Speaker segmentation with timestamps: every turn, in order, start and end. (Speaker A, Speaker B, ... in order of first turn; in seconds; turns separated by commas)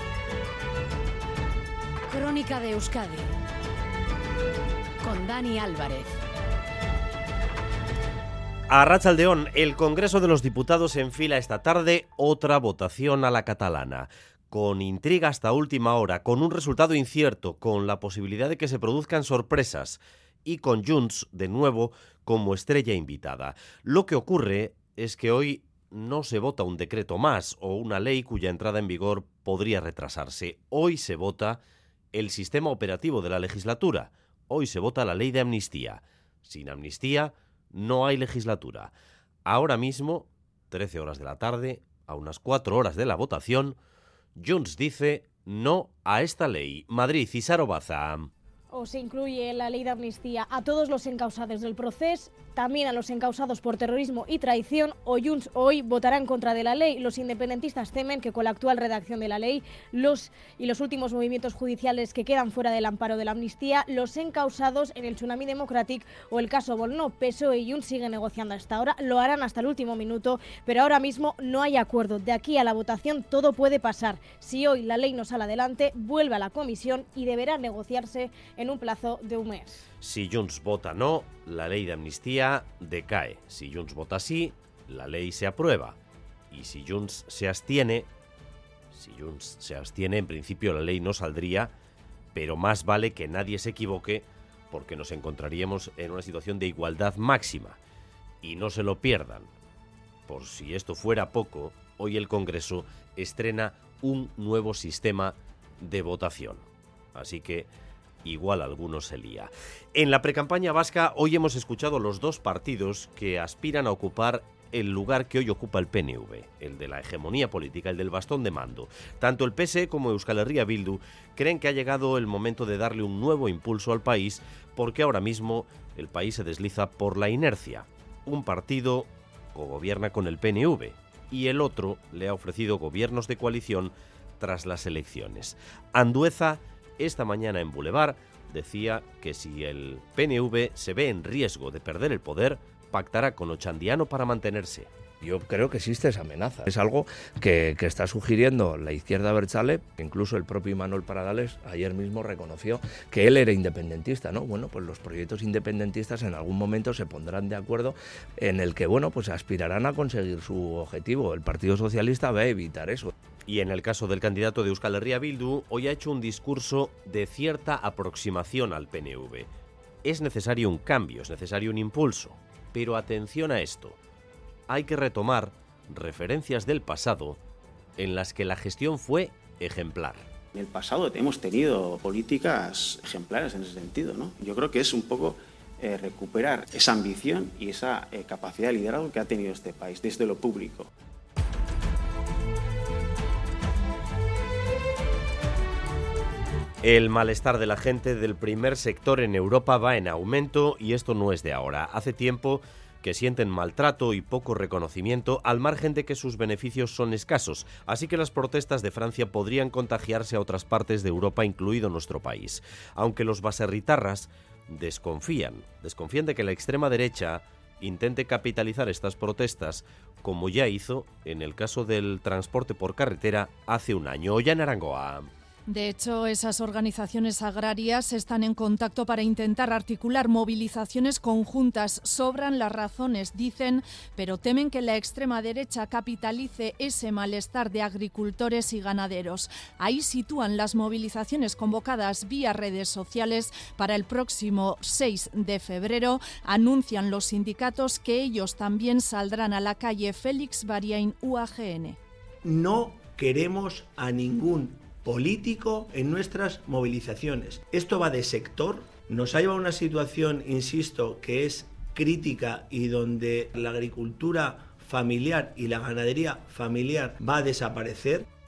Speaker A: 2.1-3.3, Speaker A: 5.0-6.2, Speaker B: 8.7-31.6, Speaker B: 32.1-38.9, Speaker B: 39.5-43.8, Speaker B: 44.4-48.3, Speaker C: 48.7-79.8, Speaker B: 80.0-86.0, Speaker B: 86.5-88.1, Speaker B: 88.9-91.7, Speaker B: 92.3-97.8, Speaker B: 98.4-99.5, Speaker B: 100.3-106.6, Speaker B: 107.1-107.7, Speaker B: 108.2-144.9, Speaker D: 145.2-163.1, Speaker B: 163.5-169.5, Speaker B: 170.0-174.0, Speaker B: 174.7-177.4, Speaker B: 178.0-180.3, Speaker E: 180.5-190.9, Speaker B: 196.8-225.3, Speaker F: 225.7-252.0, Speaker G: 252.4-268.3